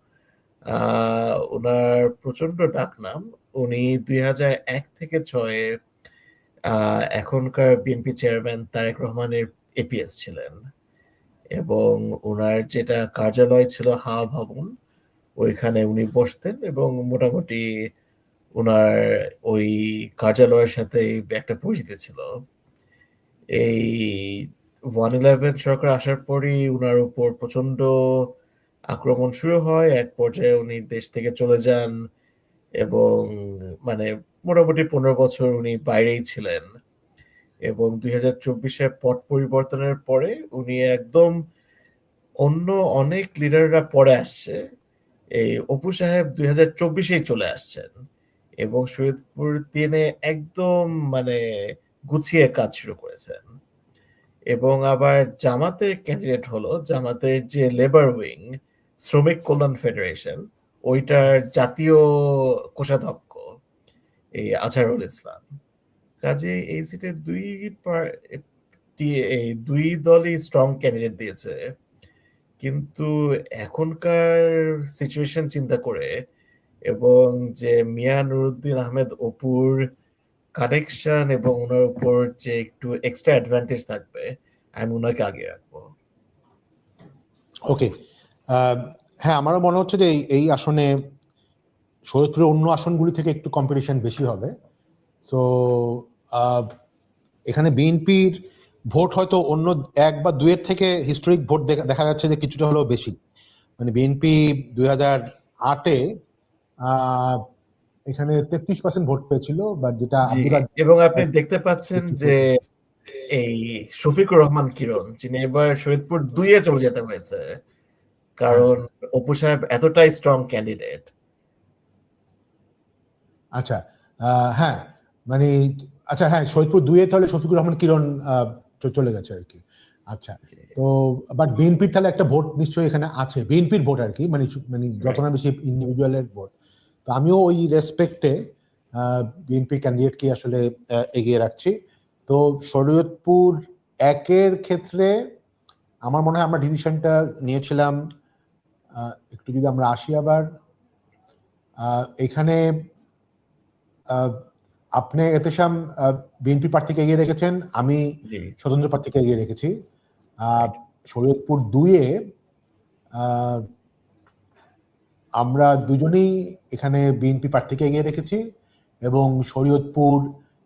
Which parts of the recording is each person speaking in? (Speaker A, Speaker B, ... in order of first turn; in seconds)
Speaker A: 0.7-5.7, 6.7-10.6, 11.6-14.7, 15.4-17.6, 18.6-18.9, 19.5-22.2, 23.6-24.4, 25.0-27.9, 28.9-31.9, 32.8-33.3, 33.9-36.7, 37.7-41.4, 42.4-44.6, 45.4-47.9, 48.6-51.4, 52.1-53.5, 54.5-58.5, 59.1-62.0, 62.8-63.4, 64.4-65.4, 66.2-68.4, 69.0-71.6, 72.6-73.1, 73.6-76.1, 76.9-79.8, 80.6-85.8, 110.3-112.5, 113.3-117.5, 118.4-121.1, 158.3-158.5
Speaker B: 88.5-91.0, 92.1-94.5, 95.2-96.7, 97.5-103.1, 103.8-106.0, 106.8-107.4, 108.1-111.3, 112.0-112.5, 123.6-136.5, 137.1-138.4, 139.0-141.7, 142.3-145.2, 146.1-148.0, 148.9-150.5, 151.8-152.6, 154.1-154.4, 155.0-158.1, 158.6-159.7, 160.4-162.1, 163.2-163.7, 165.4-168.4, 169.1-170.3